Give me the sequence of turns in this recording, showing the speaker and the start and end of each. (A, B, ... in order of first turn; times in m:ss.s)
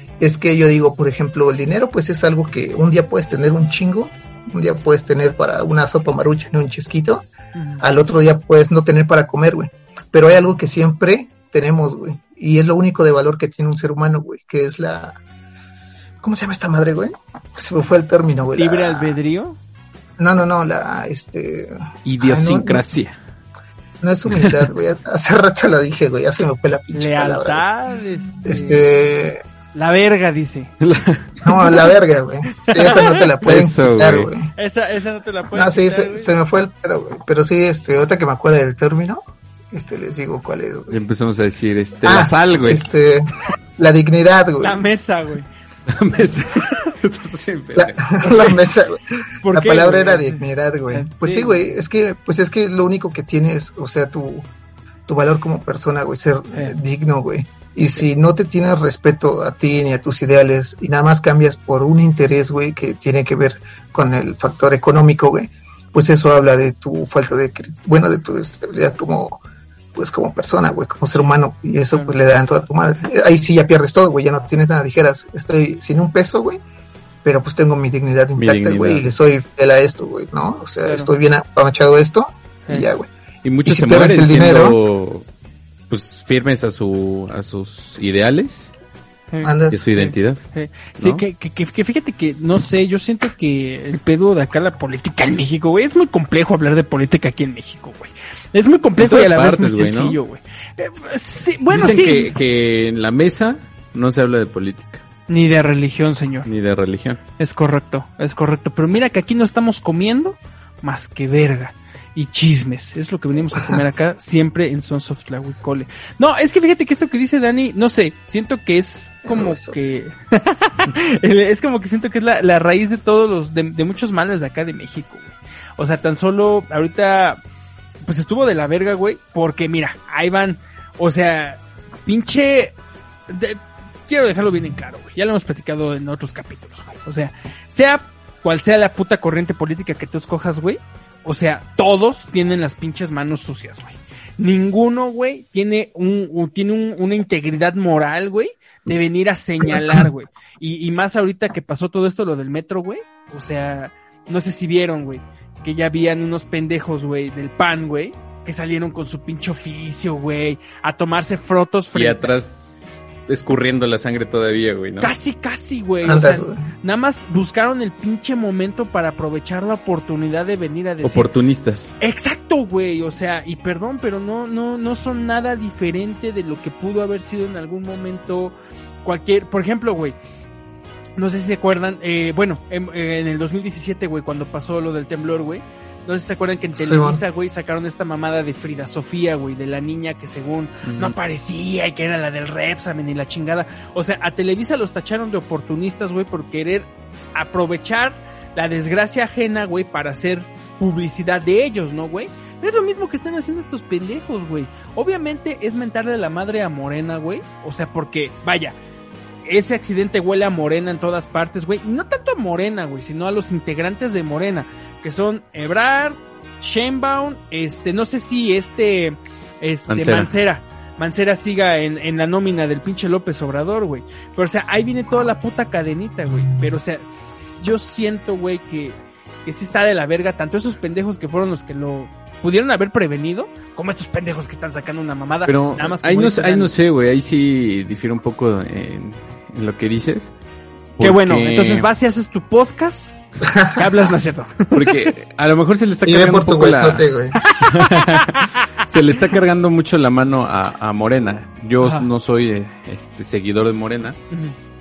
0:00.2-0:07.2 A
0:07.5-0:07.8 B
0:07.8-0:15.2 A
0:16.2-0:19.2 A
0:18.5-0:19.6 B
0:20.2-0:22.8 A
0:22.0-0:23.2 C
0:24.0-0:27.6 A
0:26.9-0:28.8 B
0:28.4-0:29.4 A
0:29.7-0:30.7 B
0:30.8-0:31.4 C
0:31.4-0:34.5 A
0:32.6-0:33.3 B
0:33.4-0:34.3 C
0:34.5-0:36.3 B
0:35.5-0:41.0 A
0:40.9-0:42.8 C
0:42.0-0:44.8 A
0:44.6-0:45.5 B
0:45.9-0:48.2 C
0:46.6-0:46.8 B
0:47.7-0:54.5 A
0:49.4-0:51.6 B
0:55.1-1:09.4 A
1:09.9-1:16.6 A
1:17.2-1:23.1 A
1:18.4-1:19.1 C
1:20.8-1:21.1 B
1:23.4-1:25.2 C
1:23.6-1:24.8 A
1:25.9-1:28.7 C
1:29.3-1:42.3 B
1:29.4-1:29.9 A
1:29.7-1:30.4 C
1:31.0-1:31.2 C
1:39.0-1:40.2 C
1:41.7-1:45.0 C
1:45.3-1:46.5 B
1:46.4-1:47.2 C
1:47.4-2:07.4 B
1:59.2-1:59.8 A
2:08.0-2:12.7 B
2:13.3-2:42.3 B
2:41.9-2:45.1 C
2:45.0-2:51.3 B
2:46.0-2:46.7 A
2:51.0-2:52.0 C
2:52.0-3:00.2 B
3:01.2-3:28.8 B
3:06.8-3:07.2 A
3:10.8-3:11.1 C
3:29.4-3:56.7 B
3:39.9-3:40.3 C
3:55.4-4:00.3 C
4:01.0-4:01.9 C
4:01.0-4:03.2 B
4:03.4-4:03.9 A
4:03.7-4:05.1 B
4:04.7-4:14.2 C
4:06.0-4:07.4 A
4:07.4-4:08.8 B
4:11.8-4:12.1 B